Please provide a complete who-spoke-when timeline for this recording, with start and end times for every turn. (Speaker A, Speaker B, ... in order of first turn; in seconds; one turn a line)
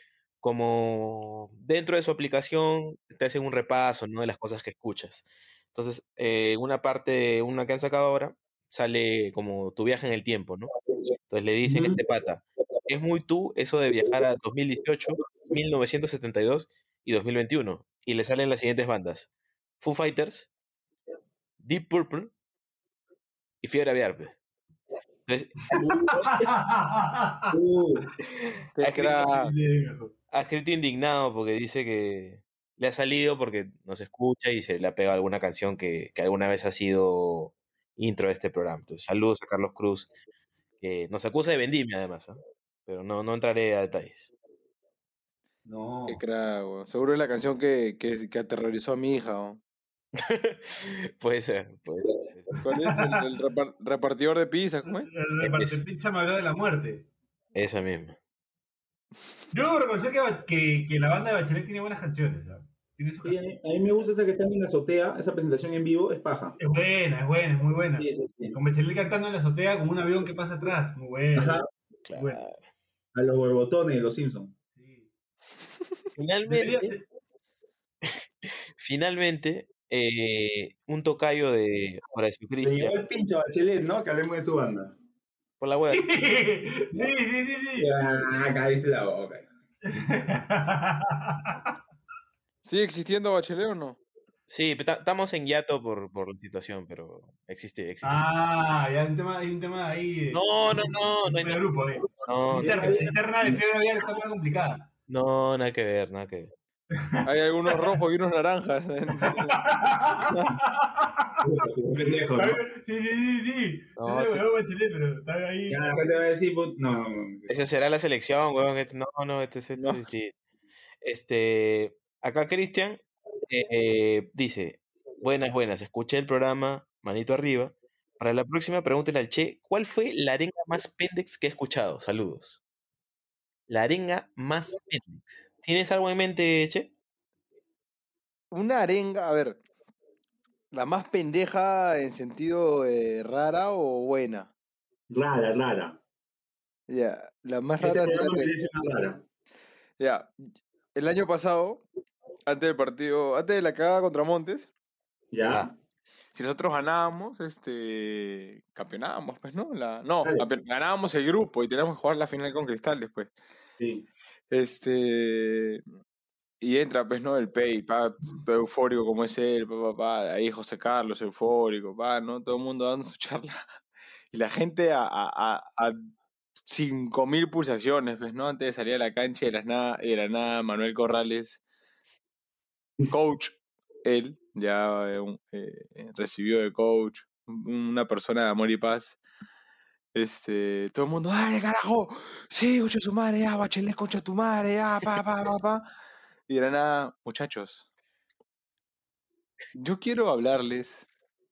Speaker A: 0.4-10.7
Speaker A: 11.3-19.3
Speaker B: 11.6-12.0
Speaker A: 19.8-20.5
Speaker A: 21.6-22.3
Speaker A: 23.6-24.4
Speaker A: 25.3-25.7
Speaker B: 25.7-26.5
Speaker C: 26.1-27.5
Speaker B: 27.5-28.1
Speaker D: 28.8-29.5
Speaker A: 28.8-29.2
Speaker C: 29.0-30.1
Speaker A: 30.3-40.1
Speaker A: 40.8-44.3
Speaker C: 45.6-46.2
Speaker D: 46.1-49.6
Speaker A: 50.1-52.5
Speaker D: 52.6-55.1
Speaker C: 52.7-53.2
Speaker C: 54.8-57.0
Speaker A: 55.4-55.8
Speaker A: 57.5-58.2
Speaker C: 59.5-63.4
Speaker B: 63.2-66.6
Speaker C: 66.6-72.4
Speaker B: 68.0-68.5
Speaker B: 71.3-71.7
Speaker A: 72.0-72.6
Speaker B: 73.1-74.5
Speaker C: 74.7-75.1
Speaker A: 76.2-77.0
Speaker C: 76.5-77.0
Speaker A: 78.0-83.0
Speaker B: 82.6-85.0
Speaker A: 85.6-86.1
Speaker C: 85.9-87.9
Speaker B: 87.8-89.5
Speaker C: 89.8-91.7
Speaker D: 92.6-94.0
Speaker A: 94.5-98.3
Speaker C: 98.0-104.8
Speaker A: 100.3-101.6
Speaker A: 102.2-103.0
Speaker B: 102.5-103.6
Speaker A: 105.1-106.5
Speaker C: 107.0-108.0
Speaker D: 107.2-109.8
Speaker C: 109.2-111.4
Speaker D: 110.3-110.5
Speaker B: 111.4-112.6
Speaker C: 112.3-115.8
Speaker A: 114.0-114.4
Speaker B: 115.7-117.5
Speaker A: 117.5-120.3
Speaker D: 119.8-120.0
Speaker A: 121.0-132.6
Speaker A: 133.7-136.9
Speaker D: 138.5-139.6
Speaker D: 140.7-144.5
Speaker B: 145.1-146.0
Speaker D: 146.9-148.5
Speaker B: 147.8-149.2
Speaker D: 150.0-151.8
Speaker D: 152.4-154.7
Speaker B: 155.3-155.7
Speaker D: 156.3-163.3
Speaker B: 163.8-164.1
Speaker D: 164.5-165.8
Speaker D: 166.6-173.6
Speaker D: 174.3-176.1
Speaker D: 176.6-181.6
Speaker D: 183.1-189.2
Speaker D: 190.1-195.9
Speaker D: 196.5-197.8
Speaker D: 199.7-201.1